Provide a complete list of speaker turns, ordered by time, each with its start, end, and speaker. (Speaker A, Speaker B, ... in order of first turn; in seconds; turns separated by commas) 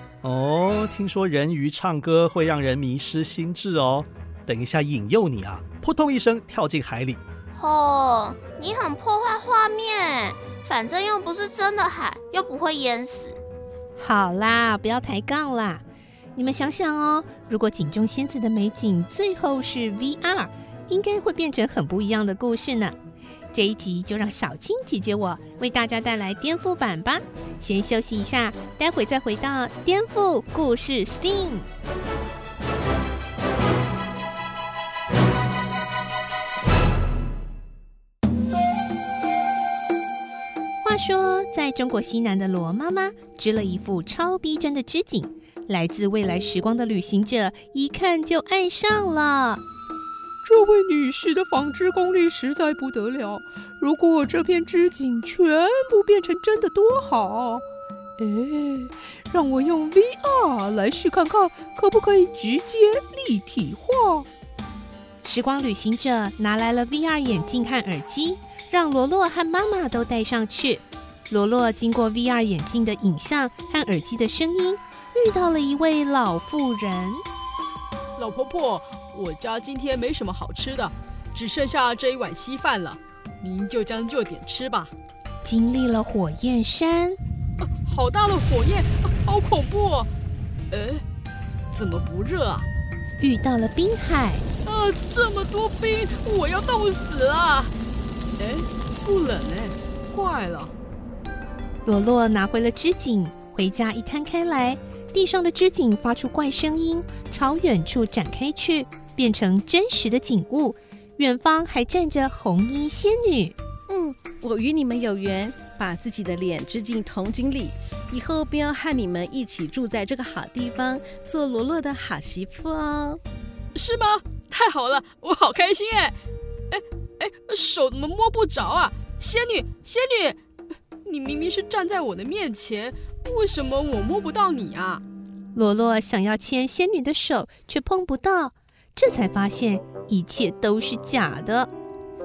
Speaker A: 0.2-7.2, Speaker B: 7.5-13.4, Speaker C: 14.0-15.8, Speaker C: 16.4-23.0, Speaker C: 23.5-31.7, Speaker C: 40.8-49.6, Speaker D: 50.4-57.6, Speaker D: 58.2-64.3, Speaker C: 65.2-77.2, Speaker E: 78.2-84.9, Speaker C: 85.4-87.2, Speaker E: 87.6-90.1, Speaker E: 90.7-91.0, Speaker E: 91.7-92.7, Speaker C: 93.2-94.4, Speaker E: 94.7-97.7, Speaker E: 98.4-100.7, Speaker C: 101.8-113.6, Speaker F: 113.9-123.2, Speaker E: 123.8-126.2, Speaker E: 126.7-130.4, Speaker E: 131.1-135.0, Speaker C: 135.6-141.7